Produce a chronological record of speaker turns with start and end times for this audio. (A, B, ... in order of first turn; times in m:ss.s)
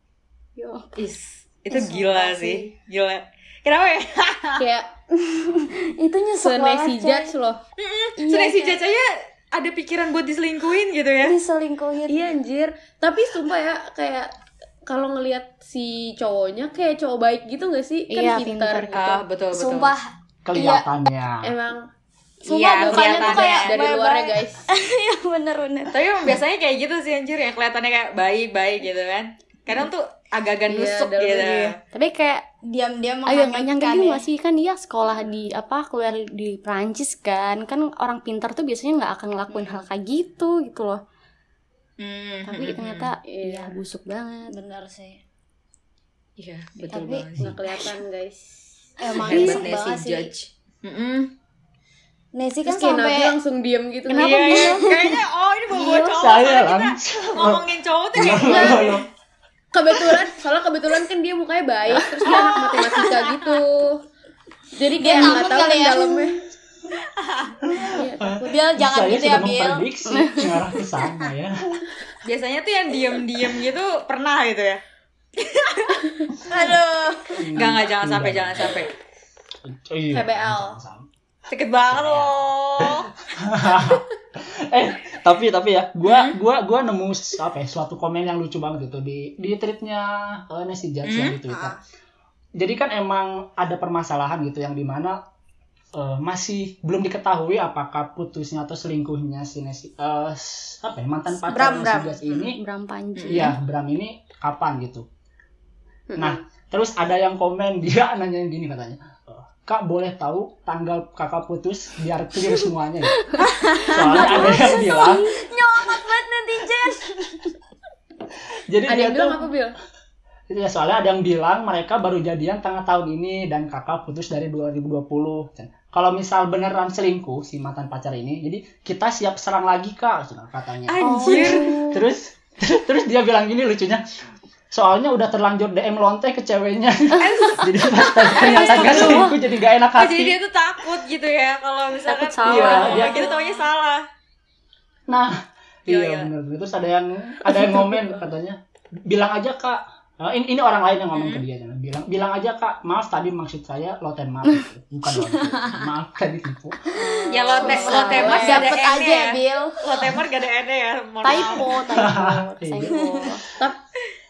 0:00.6-0:00.9 A
0:01.0-0:04.6 B
0:01.7-0:02.6 C
0:04.6-0:04.9 D
0:05.1-0:07.3 C
0:06.4-0:07.6 D
0:07.8-0:11.4 B
0:08.2-0:08.8 C
0:11.2-0:12.2 C
0:12.1-0:14.3 D
0:14.9-0:19.2 D
0:18.1-0:19.2 A
0:18.9-0:19.9 B
0:19.5-0:20.9 C
0:20.4-0:21.5 E
0:21.4-0:21.9 D
0:22.4-0:26.0 C
0:22.5-0:23.7 B
0:22.8-0:24.6 D
0:25.9-0:31.8 B
0:30.7-0:31.8 D
0:31.9-0:32.4 A
0:32.6-0:34.2 C
0:33.3-0:41.0 A
0:39.5-0:39.8 C
0:42.0-0:43.1 B
0:42.5-0:44.5 A
0:43.2-0:43.8 D
0:44.5-0:45.2 C
0:46.4-0:47.5 B
0:46.9-0:47.3 C
0:47.4-0:49.6 D
0:49.0-0:50.3 C
0:49.2-0:51.3 B
0:52.4-0:53.4 C
0:52.6-0:54.7 D
0:54.1-0:59.0 B
0:54.2-0:55.2 C
0:54.3-0:54.8 A
0:55.7-0:56.1 C
0:56.1-0:59.1 E
0:58.4-0:59.0 D
0:59.7-1:04.0 D
1:02.3-1:02.7 C
1:03.1-1:03.6 B
1:04.8-1:06.4 D
1:04.9-1:06.3 C
1:07.2-1:07.6 B
1:07.6-1:11.8 E
1:07.8-1:08.6 D
1:08.4-1:09.9 C
1:10.1-1:10.5 A
1:12.2-1:14.8 B
1:15.4-1:16.1 B
1:16.5-1:17.4 C
1:17.4-1:18.8 E
1:17.6-1:18.9 B
1:19.6-1:21.1 E
1:20.1-1:20.8 D
1:21.5-1:23.1 B
1:21.9-1:31.8 E
1:26.1-1:26.4 B
1:31.0-1:31.4 B
1:31.5-1:31.8 C
1:32.6-1:35.2 E
1:36.0-1:42.6 E
1:41.5-1:42.2 C
1:42.4-1:43.6 A
1:43.2-1:43.5 B
1:43.3-1:45.1 E
1:46.1-1:46.4 D
1:46.1-1:55.4 E
1:53.5-1:57.1 C
1:54.1-1:55.3 A
1:58.7-1:59.5 E
1:58.9-1:59.8 D
2:00.5-2:14.0 E
2:10.9-2:11.8 B
2:11.0-2:12.0 A
2:14.7-2:20.4 E
2:17.2-2:19.3 B
2:18.3-2:19.3 A
2:20.0-2:24.0 B
2:22.1-2:23.3 A
2:22.4-2:23.3 E
2:25.1-2:25.4 E
2:25.9-2:36.9 E
2:25.9-2:26.3 B
2:31.1-2:31.4 B
2:37.0-2:40.1 C
2:37.1-2:38.7 D
2:37.3-2:41.8 B
2:37.6-2:38.6 A
2:41.2-2:43.4 A
2:41.9-2:43.0 E
2:42.8-2:43.4 C